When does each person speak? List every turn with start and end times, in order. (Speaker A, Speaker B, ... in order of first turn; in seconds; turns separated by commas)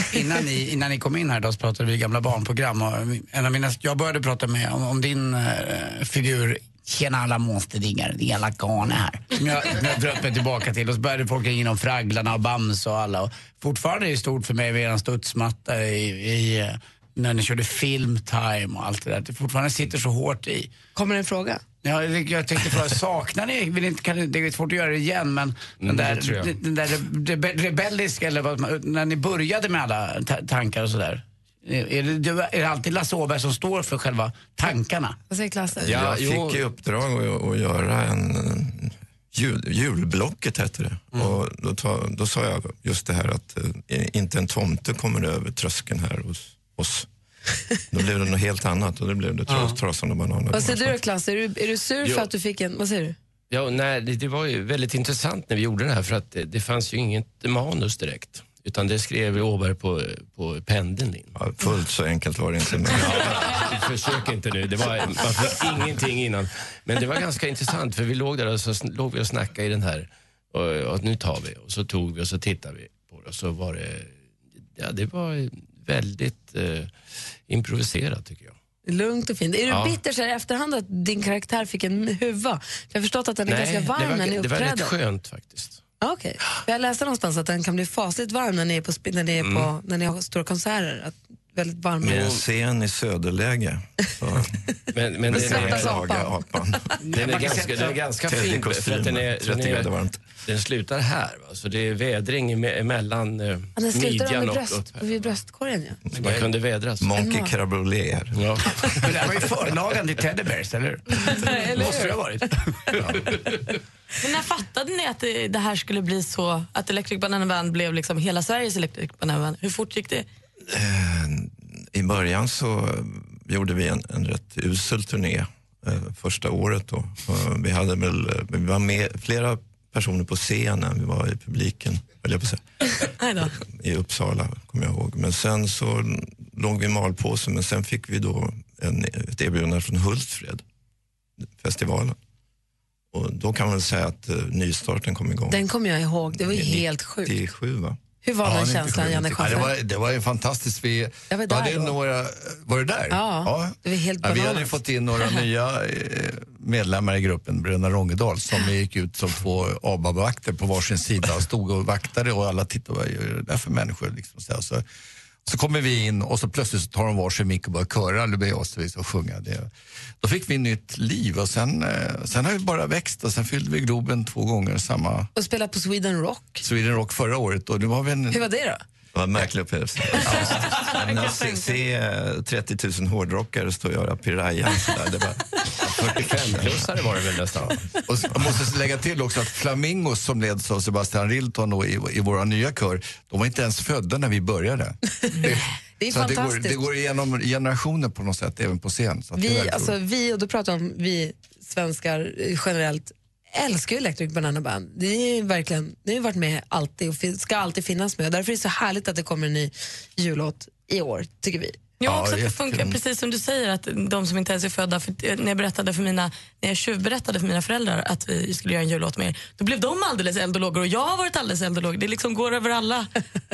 Speaker A: 0.1-20.7, Speaker B: 20.9-21.6, Speaker A: 21.8-35.1, Speaker C: 25.8-26.6, Speaker B: 35.3-35.9, Speaker D: 35.8-47.1, Speaker C: 35.8-36.6, Speaker D: 47.9-51.0, Speaker B: 50.5-53.1, Speaker C: 53.5-61.3, Speaker D: 61.4-63.6, Speaker C: 62.9-74.2, Speaker C: 74.8-76.9, Speaker C: 77.5-78.5, Speaker B: 78.8-84.9, Speaker C: 79.7-80.0, Speaker C: 83.5-85.8, Speaker B: 86.0-92.2, Speaker C: 89.4-89.7, Speaker C: 92.0-92.4, Speaker D: 92.0-94.5, Speaker C: 94.9-96.0, Speaker D: 95.2-97.7, Speaker B: 95.3-96.4, Speaker A: 97.0-98.0, Speaker C: 97.1-105.0, Speaker D: 98.2-100.2, Speaker B: 103.8-106.0, Speaker C: 106.1-107.1, Speaker D: 106.2-108.6, Speaker B: 107.2-107.5, Speaker C: 108.3-108.9, Speaker A: 109.0-113.0, Speaker B: 111.2-112.3, Speaker E: 114.2-120.3, Speaker D: 120.7-132.6, Speaker E: 133.2-133.5, Speaker D: 133.6-140.6, Speaker D: 141.6-142.2, Speaker D: 143.1-145.6, Speaker B: 145.5-147.4, Speaker D: 146.3-148.0, Speaker B: 148.2-149.8, Speaker F: 148.4-164.8, Speaker B: 151.3-151.9, Speaker B: 153.1-155.4, Speaker F: 165.4-169.7, Speaker F: 170.2-175.3, Speaker B: 175.3-176.6, Speaker F: 176.6-178.4, Speaker B: 178.3-178.8, Speaker D: 179.1-186.8, Speaker E: 180.2-181.7, Speaker F: 180.3-180.6, Speaker C: 185.8-187.8, Speaker F: 188.1-200.0, Speaker B: 195.3-196.8, Speaker B: 199.3-211.9, Speaker E: 212.0-223.1, Speaker F: 212.0-212.9